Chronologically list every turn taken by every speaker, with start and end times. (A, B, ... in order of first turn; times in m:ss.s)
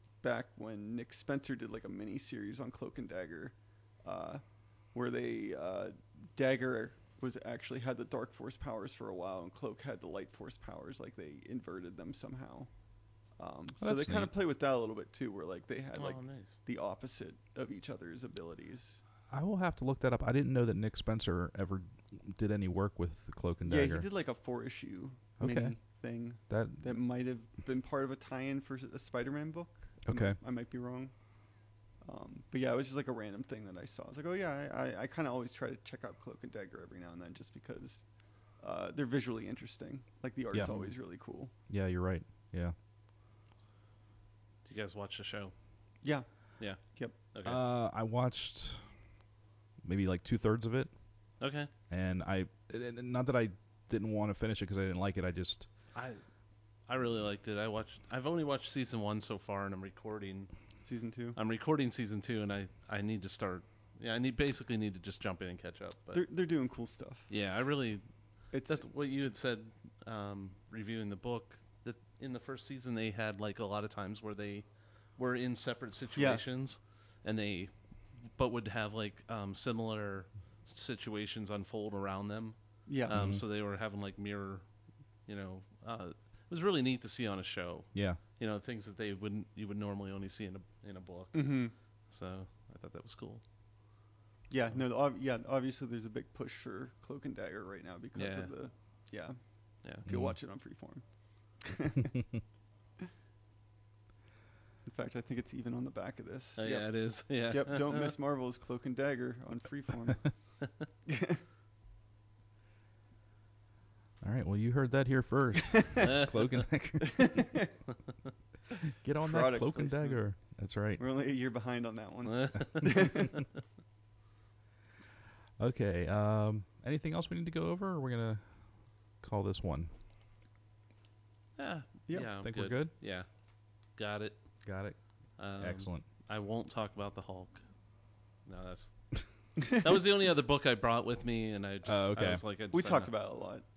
0:00.2-0:19.0 A
0:13.8-0:14.3 B
0:15.9-0:16.6 C
0:19.3-0:24.1 B
0:23.6-0:31.2 A
0:25.4-0:25.8 B
0:26.5-0:26.8 B
0:30.0-0:30.4 B
0:32.0-0:41.5 A
0:40.5-0:41.0 B
0:40.6-0:41.0 C
0:41.7-0:42.7 B
0:44.6-0:45.5 C
0:46.0-0:47.2 A
0:46.6-0:47.6 C
0:47.4-0:48.9 B
0:49.8-0:50.9 B
0:51.4-0:51.7 C
0:51.9-0:55.7 B
0:55.9-0:56.2 C
0:56.8-1:00.5 C
1:00.8-1:01.4 A
1:01.3-1:06.3 C
1:06.1-1:07.3 A
1:07.3-1:33.4 C
1:08.5-1:08.8 A
1:16.2-1:16.4 A
1:22.8-1:23.2 A
1:23.1-1:23.4 B
1:27.9-1:28.2 B
1:31.3-1:31.7 A
1:34.5-1:42.1 A
1:38.1-1:38.5 C
1:40.0-1:40.4 B
1:44.8-1:51.4 A
1:46.6-1:48.1 C
1:54.2-1:57.4 B
1:57.1-1:57.7 A
1:59.0-2:01.0 B
1:59.2-2:03.4 A
2:02.2-2:03.4 C
2:05.6-2:09.9 B
2:11.6-2:14.5 C
2:12.4-2:12.9 B
2:14.6-2:16.0 B
2:15.4-2:17.8 C
2:18.4-2:23.4 C
2:21.8-2:22.4 B
2:22.7-2:23.6 A